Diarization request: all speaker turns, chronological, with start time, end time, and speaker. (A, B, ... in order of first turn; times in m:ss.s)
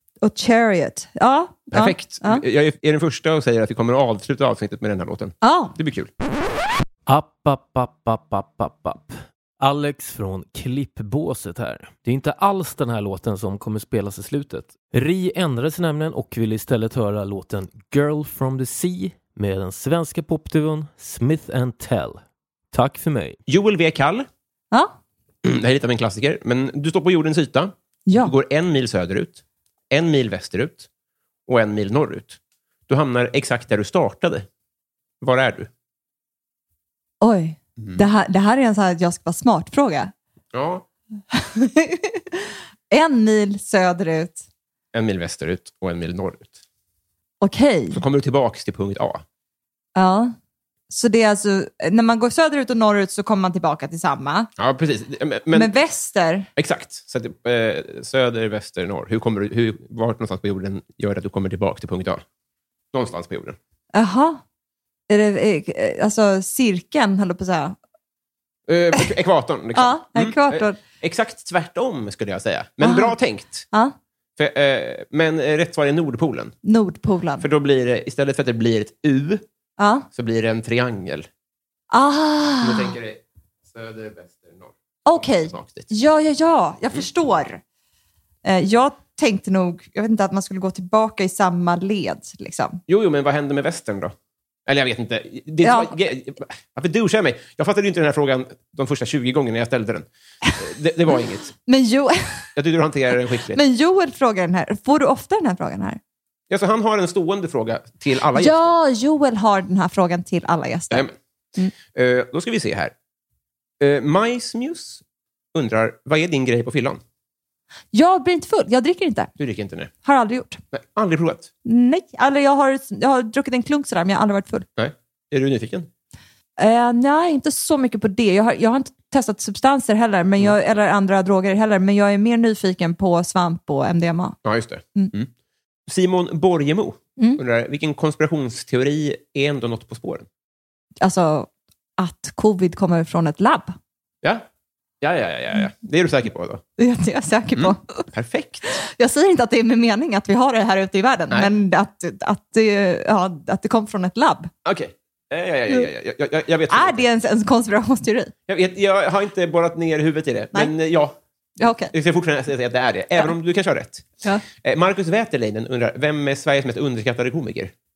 0:00.2-0:02.4 A
0:01.7-0:06.1 B
0:05.4-0:05.7 A
0:07.1-0:23.4 C
0:23.5-0:24.3 B
0:25.4-0:30.9 B
0:28.1-0:28.3 A
0:31.5-0:34.5 B
0:35.2-0:35.7 B
0:37.2-0:40.1 A
0:40.5-0:40.9 B
0:41.3-0:44.4 A
0:44.9-0:46.6 B
0:47.4-0:48.0 A
0:47.9-0:49.2 B
0:50.0-0:50.3 A
0:50.9-0:54.5 A
0:54.6-0:55.7 B
0:55.5-0:56.5 A
0:56.6-1:02.2 B
1:02.9-1:03.6 B
1:03.9-1:04.4 A
1:05.1-1:07.8 A
1:08.7-1:13.7 B
1:09.8-1:10.8 A
1:12.8-1:13.2 A
1:14.4-1:16.6 B
1:16.6-1:17.5 A
1:17.4-1:19.4 B
1:19.8-1:20.1 A
1:20.1-1:21.3 B
1:21.9-1:22.9 A
1:22.6-1:25.9 B
1:25.1-1:27.6 A
1:28.4-1:32.8 A
1:32.9-1:34.2 B
1:34.7-1:41.5 B
1:35.6-1:35.9 A
1:41.7-1:42.5 A
1:42.6-1:43.6 B
1:43.5-1:46.0 A
1:46.5-1:48.7 B
1:48.3-1:51.7 A
1:51.8-1:52.9 B
1:53.8-1:57.0 B
1:57.9-1:59.3 A
1:59.4-1:59.9 B
2:00.0-2:00.6 A
2:00.7-2:01.5 B
2:01.6-2:04.7 A
2:04.8-2:05.9 B
2:06.6-2:14.4 A
2:14.4-2:15.3 B
2:15.9-2:20.3 B
2:21.0-2:23.8 A
2:25.0-2:26.6 B
2:26.8-2:28.1 A
2:27.6-2:28.8 B
2:28.8-2:34.5 A
2:34.6-2:37.0 B
2:36.7-2:38.3 A
2:38.5-2:41.2 B
2:41.6-2:41.9 A
2:41.9-2:47.7 B